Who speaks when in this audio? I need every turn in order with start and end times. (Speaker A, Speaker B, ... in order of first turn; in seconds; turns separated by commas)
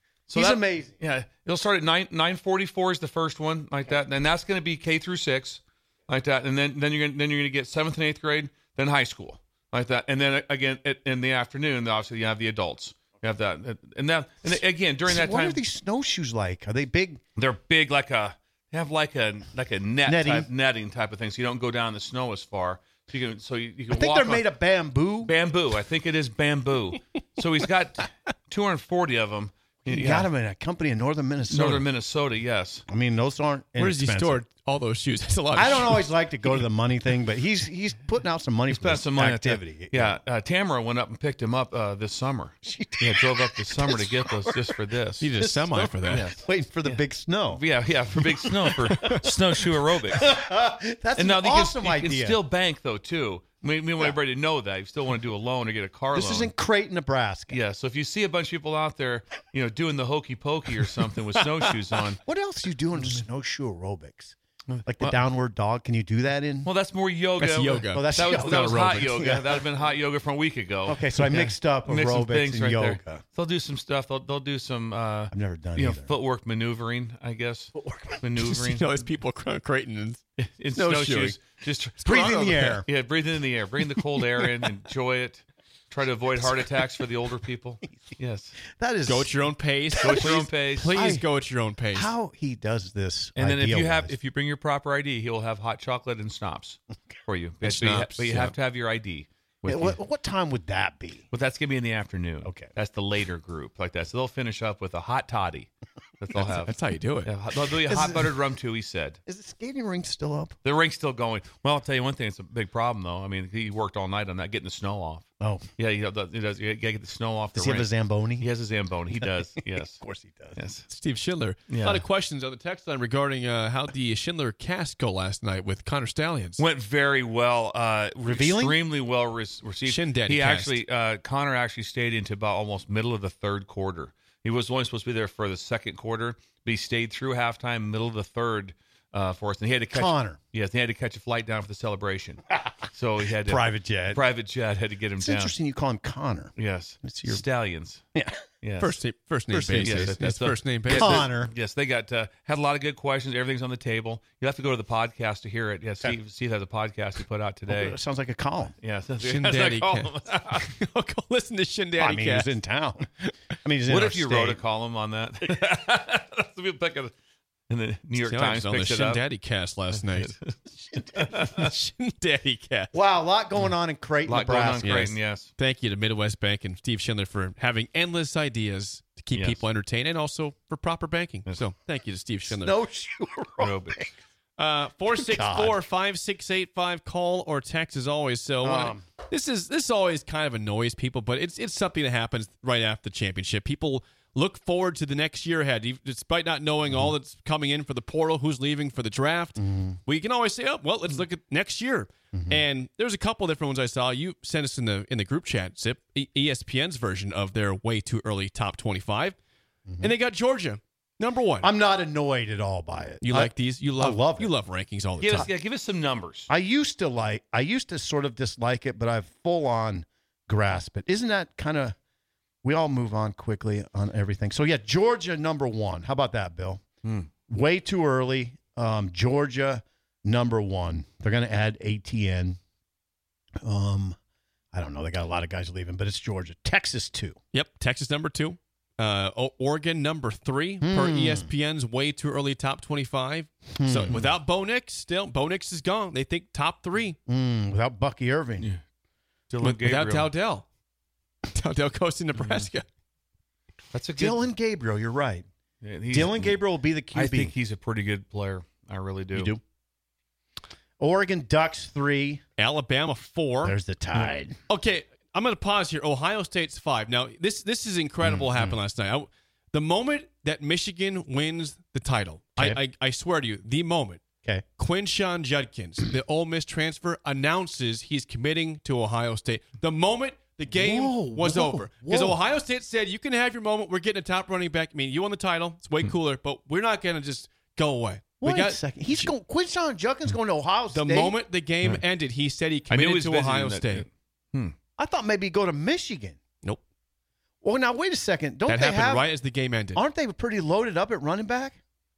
Speaker A: 0.3-15.6, Speaker B: 0.3-0.9, Speaker B: 15.1-17.2, Speaker A: 17.4-24.4, Speaker B: 20.1-20.5, Speaker B: 23.9-25.3, Speaker A: 25.2-30.3, Speaker B: 29.9-31.9, Speaker A: 31.5-32.8, Speaker B: 32.9-34.4, Speaker C: 33.8-36.1, Speaker B: 35.5-40.2, Speaker A: 38.7-45.3, Speaker B: 42.6-44.8, Speaker C: 45.2-46.2, Speaker B: 45.3-47.6, Speaker A: 46.0-50.4, Speaker B: 48.1-52.4, Speaker A: 51.1-56.5, Speaker B: 56.1-57.6, Speaker A: 57.5-62.2, Speaker B: 62.2-66.7, Speaker A: 64.7-65.2, Speaker A: 66.6-79.0, Speaker C: 67.4-68.1, Speaker B: 67.9-69.7, Speaker B: 70.9-73.2, Speaker B: 75.3-76.1, Speaker B: 77.7-78.2, Speaker C: 78.4-80.2, Speaker A: 80.4-88.6, Speaker C: 80.7-81.4, Speaker B: 82.0-82.8, Speaker B: 88.7-91.3, Speaker C: 89.0-92.1, Speaker A: 90.0-90.9, Speaker B: 91.9-94.1, Speaker A: 93.3-100.0, Speaker C: 97.6-98.5, Speaker B: 99.7-101.2, Speaker A: 101.3-106.7, Speaker B: 102.4-102.7, Speaker C: 106.5-107.3, Speaker A: 107.2-109.2, Speaker B: 107.8-108.3, Speaker B: 109.3-110.5, Speaker A: 110.6-115.2, Speaker B: 115.4-115.7, Speaker A: 115.8-120.0, Speaker B: 117.5-118.5, Speaker B: 119.1-120.6, Speaker A: 120.5-120.8, Speaker C: 120.9-126.6, Speaker A: 121.7-122.0, Speaker A: 126.6-145.5, Speaker B: 128.2-128.8, Speaker C: 129.8-130.8, Speaker B: 139.9-140.4, Speaker B: 143.4-144.2, Speaker B: 145.2-147.4, Speaker A: 146.6-148.0, Speaker B: 148.1-148.4, Speaker A: 148.6-148.9, Speaker C: 148.8-151.2, Speaker B: 149.5-150.2, Speaker A: 149.8-158.0, Speaker B: 150.9-151.5, Speaker B: 157.7-158.8, Speaker A: 158.8-160.7, Speaker C: 159.2-162.5, Speaker B: 162.0-164.6, Speaker A: 163.9-167.1, Speaker A: 167.7-169.2, Speaker C: 168.2-170.3, Speaker A: 170.0-170.6, Speaker A: 171.1-171.7, Speaker C: 171.3-172.9, Speaker B: 172.9-175.0, Speaker A: 174.2-175.5, Speaker C: 174.8-182.8, Speaker A: 179.3-179.6, Speaker B: 182.5-184.1, Speaker A: 183.6-184.1, Speaker C: 184.6-209.3, Speaker B: 185.2-185.8, Speaker B: 188.6-189.0, Speaker B: 199.6-200.0, Speaker B: 202.3-202.6, Speaker C: 210.0-211.7, Speaker B: 211.6-214.5, Speaker C: 213.2-215.5, Speaker A: 215.2-216.5, Speaker B: 216.5-221.9, Speaker B: 222.6-226.8, Speaker B: 227.5-232.6, Speaker B: 233.6-234.2, Speaker B: 234.7-237.4, Speaker C: 237.5-247.2, Speaker B: 240.8-241.5, Speaker B: 243.7-244.2, Speaker B: 247.3-248.7, Speaker A: 249.5-250.3, Speaker C: 249.6-250.7, Speaker C: 251.5-252.9, Speaker A: 252.4-252.7, Speaker A: 253.9-254.4, Speaker B: 254.2-255.4, Speaker A: 255.8-256.6, Speaker B: 256.1-257.5, Speaker A: 257.1-259.5, Speaker B: 259.3-259.6, Speaker B: 261.0-262.4, Speaker C: 262.6-263.8, Speaker B: 263.6-264.6, Speaker C: 264.7-274.2, Speaker B: 268.2-268.7, Speaker C: 274.8-289.3, Speaker B: 280.7-282.4, Speaker B: 288.4-291.4, Speaker C: 290.9-294.1, Speaker A: 292.9-294.7, Speaker B: 295.0-296.4, Speaker B: 297.6-299.3, Speaker C: 298.7-300.0, Speaker B: 299.9-301.8